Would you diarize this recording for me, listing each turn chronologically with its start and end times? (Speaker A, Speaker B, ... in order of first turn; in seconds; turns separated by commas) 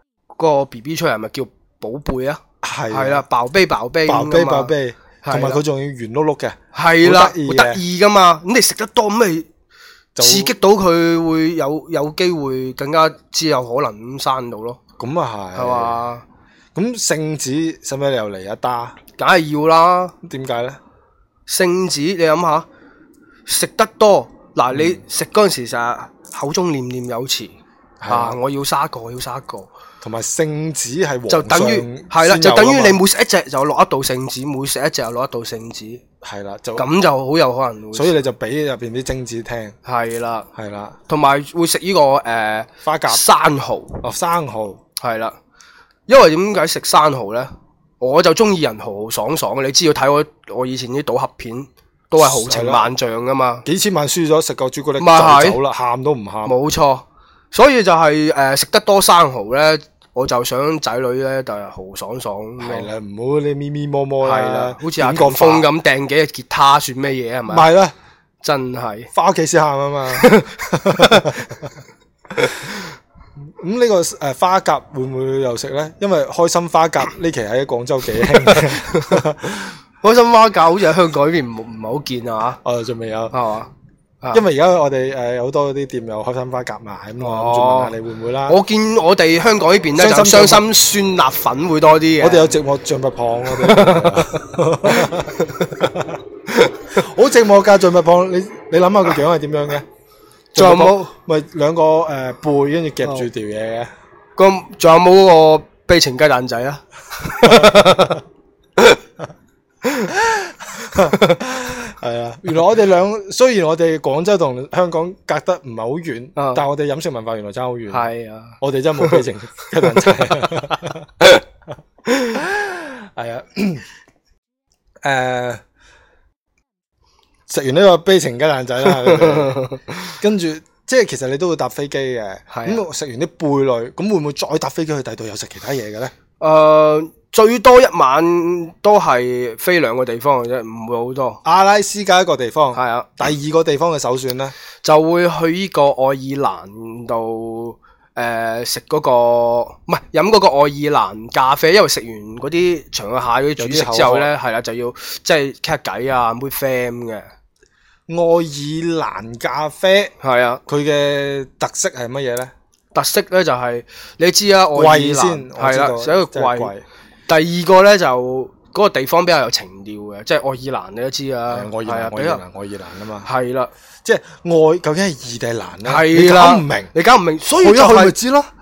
Speaker A: 0.4-5.6, Speaker B: 2.6-3.2, Speaker B: 4.1-7.8, Speaker A: 6.7-9.5, Speaker B: 10.2-10.5, Speaker A: 10.2-14.8, Speaker B: 15.0-16.0, Speaker A: 15.6-16.2, Speaker B: 16.8-19.0, Speaker A: 19.2-20.1, Speaker B: 20.2-20.8, Speaker A: 21.5-22.7, Speaker A: 23.5-27.6, Speaker B: 24.7-25.0, Speaker B: 28.0-28.4, Speaker A: 28.1-29.7, Speaker B: 30.0-33.0, Speaker A: 31.3-36.0, Speaker B: 36.2-36.9, Speaker A: 36.8-38.2, Speaker B: 37.9-39.8, Speaker A: 39.9-40.5, Speaker B: 40.5-41.0, Speaker A: 41.1-44.0, Speaker B: 42.8-43.2, Speaker B: 44.0-44.8, Speaker A: 45.0-45.4, Speaker A: 46.1-53.7, Speaker B: 52.2-52.9, Speaker B: 53.6-56.6, Speaker A: 55.0-55.6, Speaker A: 56.5-62.9, Speaker B: 62.6-65.7, Speaker A: 64.2-67.7, Speaker B: 67.5-68.0, Speaker A: 68.4-69.1, Speaker B: 69.1-71.8, Speaker A: 70.2-71.5, Speaker B: 73.6-79.8, Speaker A: 80.0-82.6, Speaker B: 82.6-83.3, Speaker A: 83.3-83.7, Speaker B: 84.3-88.6, Speaker A: 87.2-87.9, Speaker A: 88.5-92.5, Speaker B: 90.0-90.7, Speaker B: 92.2-96.2, Speaker A: 93.5-95.8, Speaker A: 96.5-96.8, Speaker B: 96.9-99.9, Speaker B: 100.5-103.9, Speaker A: 100.5-101.1, Speaker A: 104.4-108.2, Speaker B: 107.4-107.9, Speaker B: 110.1-118.1, Speaker A: 116.4-116.6, Speaker A: 117.9-119.2, Speaker B: 118.6-121.1, Speaker B: 122.3-123.9, Speaker B: 125.0-125.6, Speaker B: 127.5-129.7, Speaker A: 129.0-130.1, Speaker B: 130.2-136.1, Speaker A: 132.5-132.8, Speaker A: 136.4-141.4, Speaker B: 141.4-144.6, Speaker A: 142.8-143.2, Speaker A: 144.8-157.3, Speaker B: 153.6-154.3, Speaker B: 158.1-160.2, Speaker A: 160.2-160.6, Speaker B: 160.7-162.5, Speaker A: 162.9-166.7, Speaker B: 164.7-166.8, Speaker A: 167.3-172.4, Speaker B: 171.5-173.3, Speaker A: 173.2-173.7, Speaker B: 174.0-176.9, Speaker A: 175.8-178.2, Speaker B: 177.5-178.5